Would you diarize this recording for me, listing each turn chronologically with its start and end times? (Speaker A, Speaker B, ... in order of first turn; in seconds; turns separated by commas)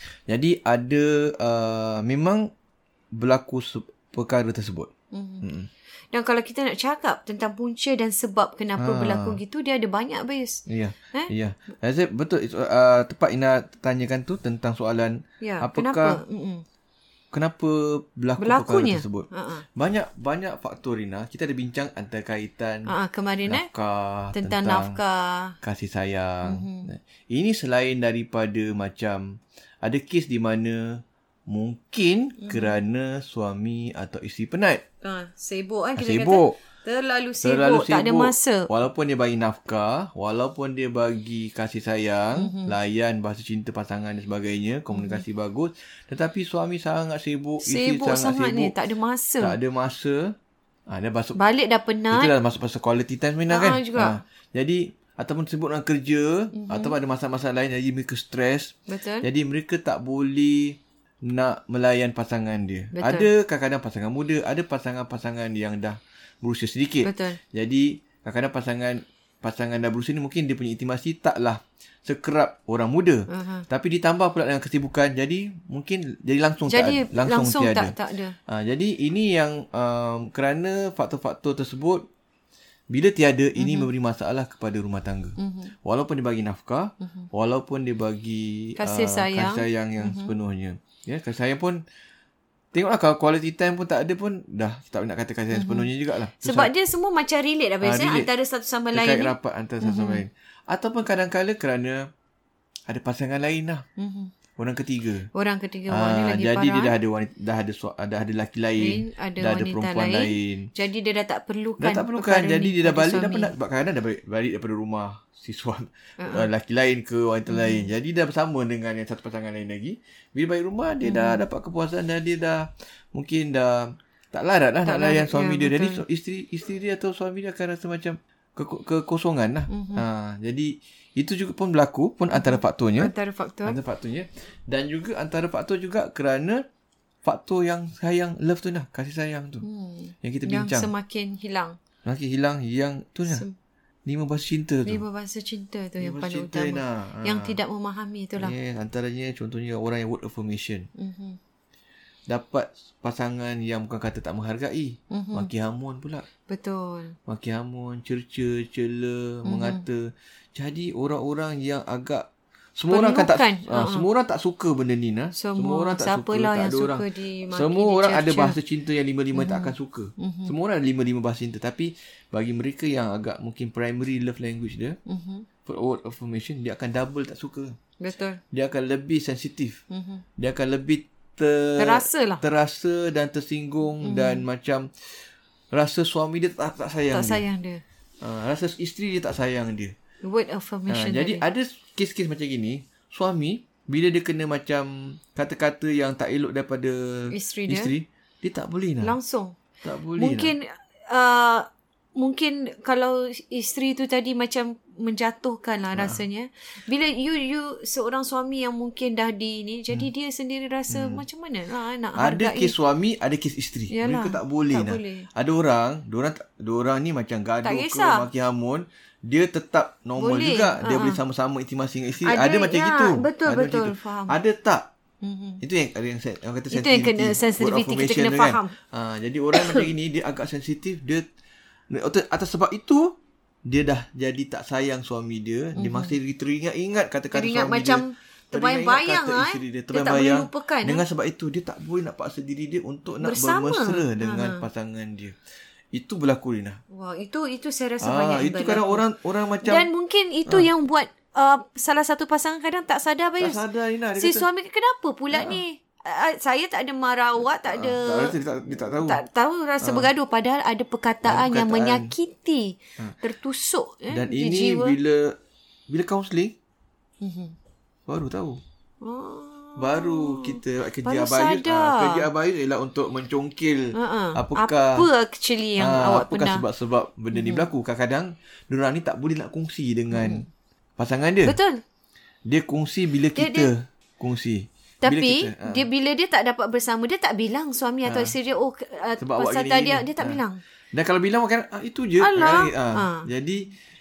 Speaker A: 0.3-2.5, Speaker A: 3.1-4.9, Speaker B: 5.1-5.5, Speaker A: 5.4-5.7, Speaker B: 6.1-11.3, Speaker A: 8.8-9.4, Speaker A: 10.7-16.2, Speaker B: 15.4-16.6, Speaker A: 17.3-22.9, Speaker B: 18.4-19.6, Speaker B: 22.9-23.7, Speaker A: 23.5-25.0, Speaker B: 24.4-25.6, Speaker A: 25.6-34.8, Speaker B: 26.4-26.9, Speaker B: 32.4-32.8, Speaker B: 35.0-38.7, Speaker A: 36.0-36.6, Speaker A: 37.4-48.8, Speaker B: 42.4-42.8, Speaker B: 44.9-45.2, Speaker B: 47.6-49.6, Speaker A: 49.4-50.4, Speaker A: 50.9-51.4, Speaker B: 51.4-52.3, Speaker A: 52.1-77.9, Speaker B: 53.5-54.2, Speaker B: 56.5-57.0, Speaker B: 58.9-59.3, Speaker B: 62.9-63.3, Speaker B: 67.0-67.4, Speaker B: 73.3-73.7, Speaker B: 76.7-78.4, Speaker A: 78.5-82.1, Speaker A: 82.9-91.8, Speaker B: 83.6-83.9, Speaker B: 85.4-85.7, Speaker B: 87.0-87.3, Speaker B: 88.8-90.3, Speaker A: 92.7-96.7, Speaker B: 95.5-95.9, Speaker B: 96.4-100.2, Speaker A: 97.8-98.3, Speaker A: 98.9-102.1, Speaker A: 102.9-103.8, Speaker B: 104.0-104.3, Speaker A: 104.6-105.3, Speaker B: 105.3-107.0, Speaker A: 105.9-110.7, Speaker B: 108.8-113.5, Speaker A: 111.8-133.1, Speaker B: 116.2-116.5, Speaker B: 117.5-117.9, Speaker B: 121.0-121.4, Speaker B: 124.8-126.0, Speaker B: 129.7-130.1, Speaker B: 132.3-133.8, Speaker A: 133.7-136.7, Speaker A: 137.2-139.7, Speaker B: 139.6-141.8, Speaker A: 140.2-140.9, Speaker A: 142.1-143.4, Speaker B: 143.3-143.6, Speaker A: 144.1-145.0, Speaker B: 144.9-148.5, Speaker A: 146.0-147.6, Speaker A: 148.4-150.9, Speaker B: 151.0-151.4, Speaker A: 152.3-156.3, Speaker B: 155.1-155.5, Speaker B: 156.5-157.2, Speaker A: 157.3-175.0, Speaker B: 159.4-159.8, Speaker B: 162.9-164.1, Speaker B: 165.3-168.6, Speaker B: 169.3-170.5, Speaker B: 175.1-175.5, Speaker A: 175.7-177.8, Speaker B: 178.0-178.4, Speaker A: 178.5-179.8, Speaker B: 179.9-180.2, Speaker A: 180.4-187.4, Speaker B: 181.8-182.4, Speaker B: 184.0-184.5, Speaker B: 187.1-187.8, Speaker A: 188.2-189.9, Speaker B: 190.2-191.4, Speaker A: 190.9-199.2, Speaker B: 197.3-197.9, Speaker B: 199.0-199.6, Speaker A: 199.8-200.5, Speaker B: 200.2-212.8, Speaker A: 205.9-206.2, Speaker A: 210.9-211.2, Speaker A: 212.2-224.9, Speaker B: 213.9-215.3, Speaker B: 217.6-218.3, Speaker B: 220.2-221.2, Speaker B: 222.2-224.4, Speaker B: 225.2-225.6, Speaker A: 225.6-231.3, Speaker B: 226.7-228.7, Speaker B: 229.5-229.9, Speaker A: 231.9-245.4, Speaker B: 235.8-236.2, Speaker B: 237.3-241.0, Speaker B: 243.2-244.7, Speaker A: 245.9-246.8, Speaker B: 246.9-249.1, Speaker A: 248.0-249.9, Speaker B: 249.6-253.6, Speaker A: 253.4-254.5, Speaker B: 254.2-258.4, Speaker A: 255.3-255.6, Speaker A: 257.6-259.2, Speaker B: 259.0-265.0, Speaker A: 259.8-260.1, Speaker A: 261.2-262.1, Speaker A: 264.1-265.4, Speaker A: 265.9-266.6, Speaker B: 267.2-267.6, Speaker A: 268.1-268.6, Speaker B: 269.0-272.3, Speaker A: 269.8-275.1, Speaker B: 273.9-276.6, Speaker A: 275.8-280.5, Speaker B: 277.3-277.7, Speaker B: 280.1-280.5, Speaker A: 281.0-281.6, Speaker B: 281.4-281.8, Speaker A: 282.5-285.9, Speaker B: 283.3-283.7, Speaker B: 285.0-290.6, Speaker A: 288.1-288.4, Speaker A: 289.2-290.4, Speaker A: 290.9-293.7, Speaker B: 292.2-293.3